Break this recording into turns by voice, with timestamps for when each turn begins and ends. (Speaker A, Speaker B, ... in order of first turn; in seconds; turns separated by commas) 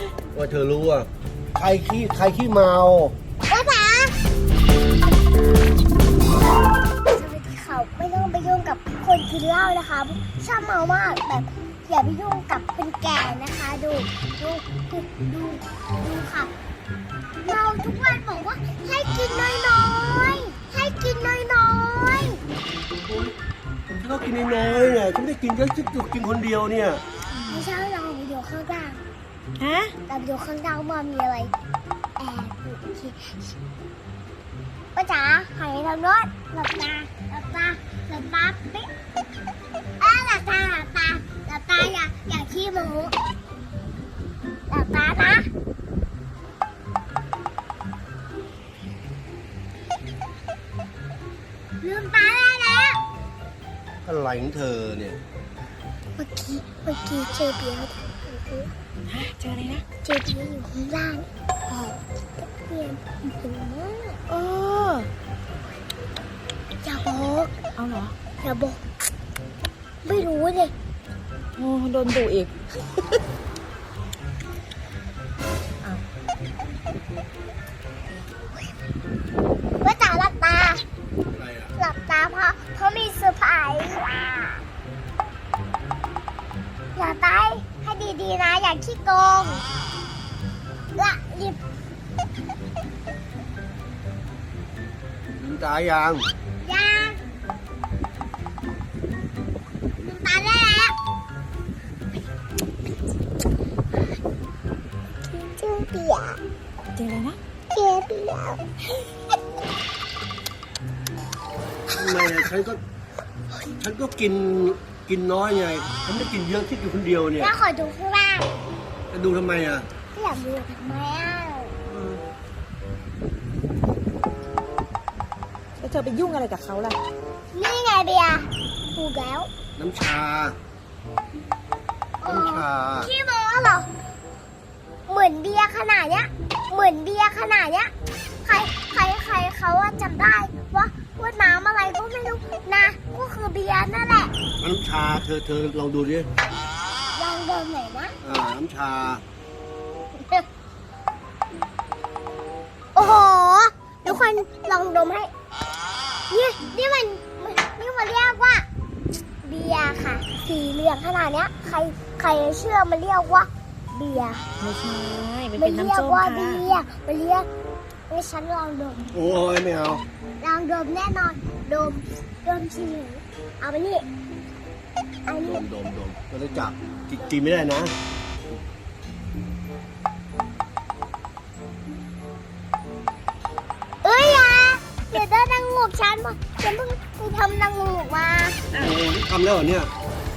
Speaker A: 0.3-3.1, Speaker B: 3.5-4.1, Speaker B: 7.1-16.5, Speaker B: 17.4-22.4, Speaker A: 23.1-23.3, Speaker A: 23.9-27.0, Speaker B: 27.5-29.0, Speaker C: 29.6-29.9, Speaker B: 30.1-31.5, Speaker B: 32.2-33.5, Speaker B: 34.9-38.9, Speaker B: 40.0-43.1, Speaker B: 44.7-45.5, Speaker B: 51.8-53.0, Speaker A: 54.0-55.2, Speaker B: 56.2-58.7, Speaker C: 59.1-59.8, Speaker B: 60.0-61.3, Speaker C: 61.7-62.0, Speaker B: 62.4-64.2, Speaker C: 64.3-65.1, Speaker B: 66.8-67.6, Speaker C: 67.8-68.1, Speaker B: 68.4-68.8, Speaker B: 70.0-70.7, Speaker C: 71.6-72.5, Speaker B: 79.8-80.8, Speaker A: 81.3-81.7, Speaker B: 81.8-84.5, Speaker B: 86.9-89.6, Speaker B: 91.0-91.6, Speaker A: 95.4-96.2, Speaker B: 96.6-97.2, Speaker B: 100.0-100.9, Speaker B: 105.3-106.4, Speaker C: 106.9-107.4, Speaker B: 107.7-108.8, Speaker B: 111.9-112.4, Speaker A: 112.0-112.8, Speaker A: 113.8-117.5, Speaker B: 117.4-118.5, Speaker A: 119.1-119.9, Speaker B: 120.1-121.8, Speaker A: 121.9-122.2, Speaker C: 125.8-127.0, Speaker B: 127.5-129.5, Speaker A: 129.8-130.6, Speaker B: 132.2-133.9, Speaker A: 132.2-133.1, Speaker B: 135.1-137.9, Speaker B: 138.4-144.4, Speaker A: 144.5-146.3, Speaker B: 147.1-148.1, Speaker A: 148.2-149.2, Speaker B: 152.9-155.3, Speaker B: 156.3-158.7, Speaker B: 159.4-164.4, Speaker C: 164.6-166.6, Speaker B: 165.6-167.5, Speaker B: 168.1-169.1, Speaker A: 169.1-170.0, Speaker B: 170.4-174.1, Speaker B: 175.3-175.6, Speaker A: 175.4-177.9, Speaker B: 184.0-188.6, Speaker A: 188.7-189.9